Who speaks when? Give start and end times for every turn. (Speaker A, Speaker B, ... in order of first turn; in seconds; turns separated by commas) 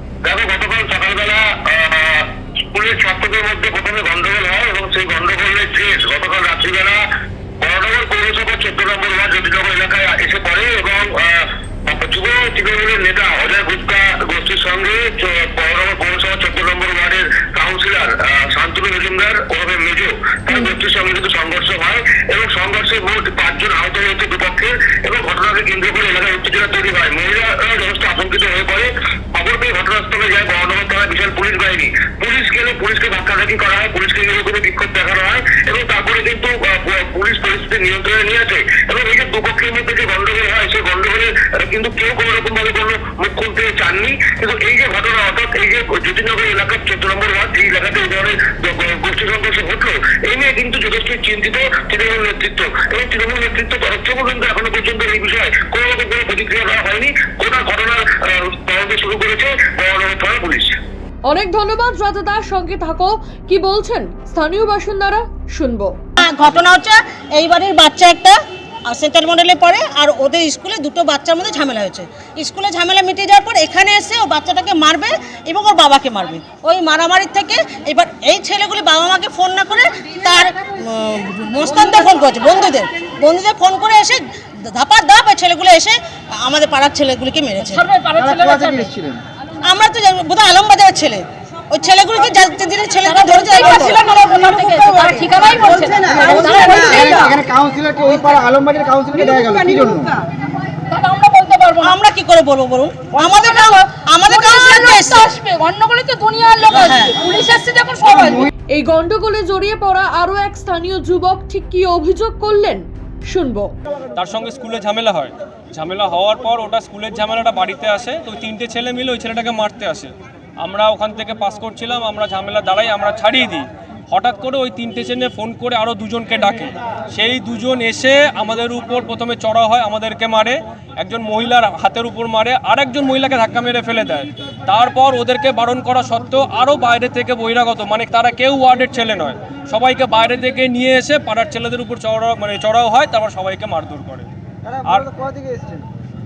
Speaker A: 0.2-7.0, Speaker A: 7.6-60.7, Speaker B: 61.3-66.0, Speaker C: 66.2-87.9, Speaker D: 87.6-88.9, Speaker E: 88.3-89.2, Speaker C: 89.7-97.1, Speaker D: 93.0-97.4, Speaker E: 96.1-100.2, Speaker D: 100.9-102.0, Speaker C: 101.8-105.3, Speaker D: 103.3-108.5, Speaker C: 106.7-107.2, Speaker B: 108.7-113.7, Speaker F: 114.2-144.3, Speaker E: 144.7-145.8